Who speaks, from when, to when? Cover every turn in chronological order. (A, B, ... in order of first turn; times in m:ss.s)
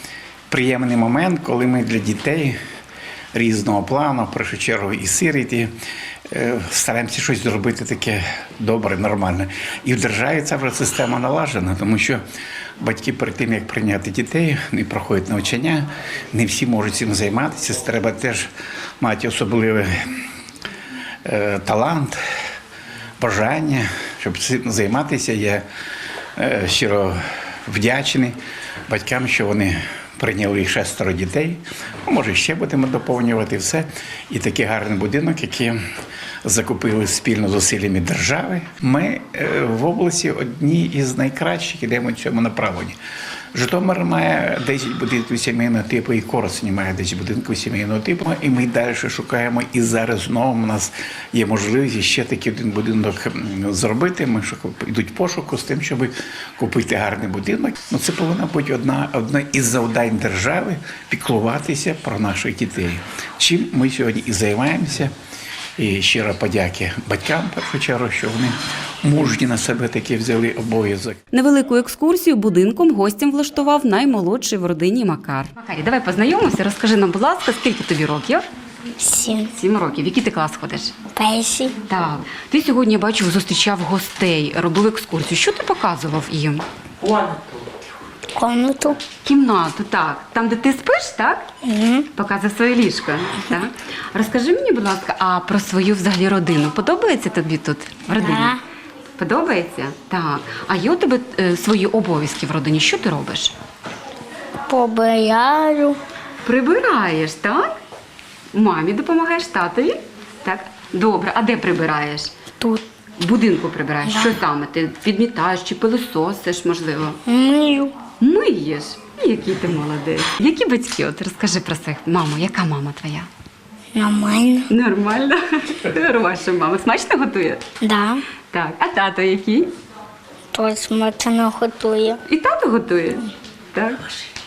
0:00.5-0:02.6 A
0:03.3-0:05.7 A
0:06.3-0:12.2 A
0:12.8-0:18.5 A
0:19.0-0:20.1 A
0:21.2-0:22.2 A
0:23.2-0:25.6 A
0:26.4-0:28.4 A
0:28.9-0:35.8 A
0:36.4-0:43.0 A
0:43.5-1:05.1 A
1:05.8-1:11.2 A
1:11.3-1:18.4 B
1:19.0-1:19.5 C
1:19.5-1:21.0 B
1:21.2-1:21.8 C
1:21.9-1:26.6 B
1:28.4-1:29.0 C
1:29.2-1:31.5 B
1:31.6-1:32.1 C
1:32.1-1:38.6 B
1:38.1-1:38.6 C
1:39.2-1:43.6 B
1:44.7-1:46.0 C
1:46.4-1:47.7 B
1:48.5-1:52.3 B
1:53.2-1:57.2 B
1:54.0-1:54.4 C
1:57.3-1:58.0 C
1:58.2-2:03.3 B
2:04.0-2:04.7 C
2:04.7-2:07.6 B
2:07.8-2:08.2 C
2:08.5-2:09.7 B
2:10.5-2:12.2 C
2:12.3-2:14.2 B